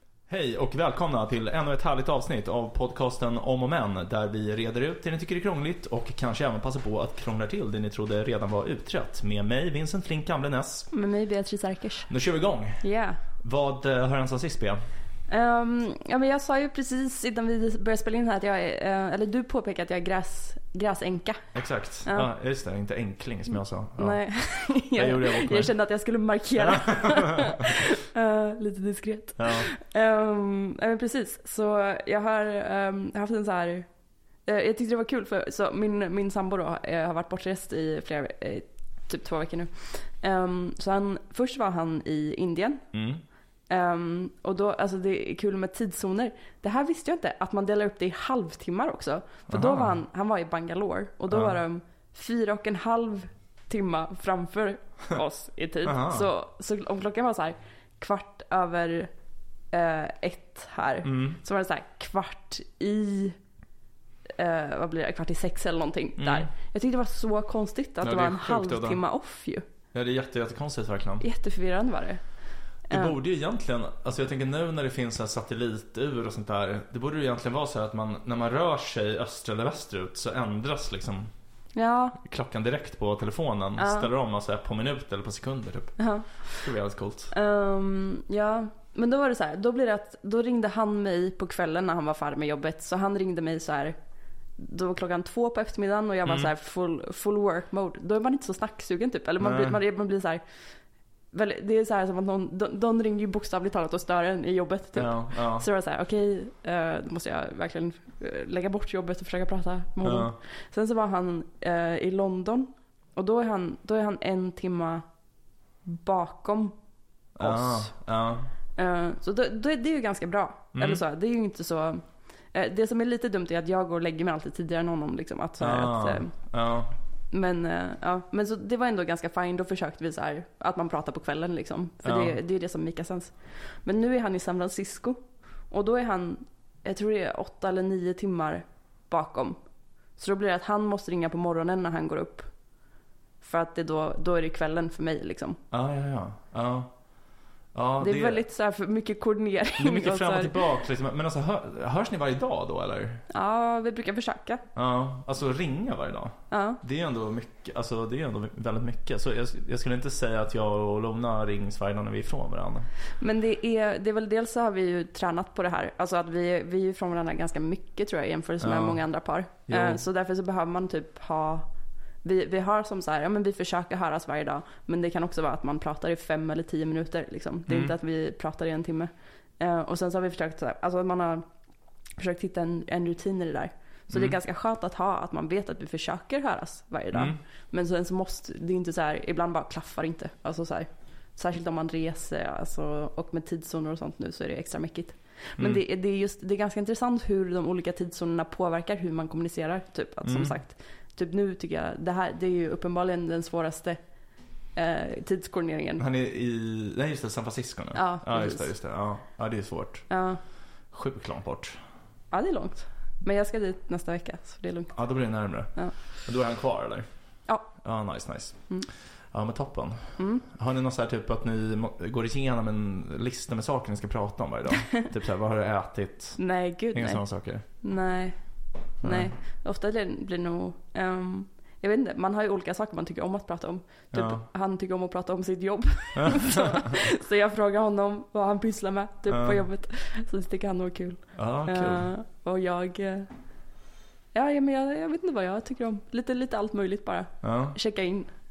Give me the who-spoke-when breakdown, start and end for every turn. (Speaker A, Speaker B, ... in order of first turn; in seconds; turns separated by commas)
Speaker A: 0.3-10.9, Speaker B: 10.9-12.1, Speaker A: 12.1-12.8, Speaker B: 12.8-13.2, Speaker A: 13.4-14.8, Speaker B: 15.3-21.4, Speaker A: 21.5-25.7, Speaker B: 24.0-33.9, Speaker A: 26.6-27.9, Speaker A: 29.4-29.7, Speaker B: 34.5-42.8, Speaker A: 42.9-43.2, Speaker B: 43.7-59.1, Speaker A: 49.5-50.0, Speaker A: 51.3-51.6, Speaker A: 55.8-56.3, Speaker B: 59.7-63.4, Speaker A: 61.0-61.4, Speaker B: 64.4-69.7, Speaker A: 66.2-66.5, Speaker A: 68.0-69.0, Speaker A: 69.9-71.2, Speaker B: 71.2-72.2, Speaker B: 72.9-73.1, Speaker A: 72.9-81.3, Speaker B: 81.8-82.2, Speaker A: 82.2-87.3, Speaker B: 83.8-84.1, Speaker B: 86.0-86.7, Speaker B: 87.3-94.0, Speaker B: 94.6-100.4, Speaker A: 96.2-96.5, Speaker A: 99.4-99.8, Speaker B: 101.3-115.0, Speaker A: 104.9-105.7, Speaker A: 110.0-110.4, Speaker B: 115.8-116.8, Speaker A: 117.4-118.5, Speaker B: 117.4-117.9, Speaker B: 118.8-126.3, Speaker A: 120.8-121.0, Speaker A: 125.6-126.9, Speaker B: 127.3-139.6, Speaker A: 132.0-132.4, Speaker B: 140.2-142.5, Speaker B: 143.4-145.6, Speaker A: 145.7-146.9, Speaker A: 147.7-148.4, Speaker B: 148.0-150.6, Speaker A: 149.8-153.2, Speaker B: 153.3-154.6, Speaker A: 154.8-162.9, Speaker B: 156.5-156.8, Speaker B: 163.2-171.7, Speaker A: 168.6-169.0, Speaker A: 169.7-170.0, Speaker B: 172.2-181.5, Speaker A: 177.7-177.9, Speaker B: 182.2-204.0, Speaker A: 184.1-184.3, Speaker A: 187.1-187.4, Speaker A: 200.2-200.5, Speaker B: 204.8-206.0, Speaker A: 206.0-210.1, Speaker B: 207.9-208.7, Speaker B: 210.1-210.4, Speaker A: 210.9-211.8, Speaker B: 212.3-214.9, Speaker A: 214.9-217.1, Speaker A: 217.8-218.7, Speaker A: 219.3-227.6, Speaker B: 220.2-220.4, Speaker B: 226.4-228.4, Speaker A: 229.0-229.3, Speaker B: 229.0-243.3, Speaker A: 234.1-234.4, Speaker A: 236.2-237.0, Speaker A: 239.3-239.6, Speaker A: 241.3-242.1, Speaker B: 244.3-248.3, Speaker A: 247.4-247.8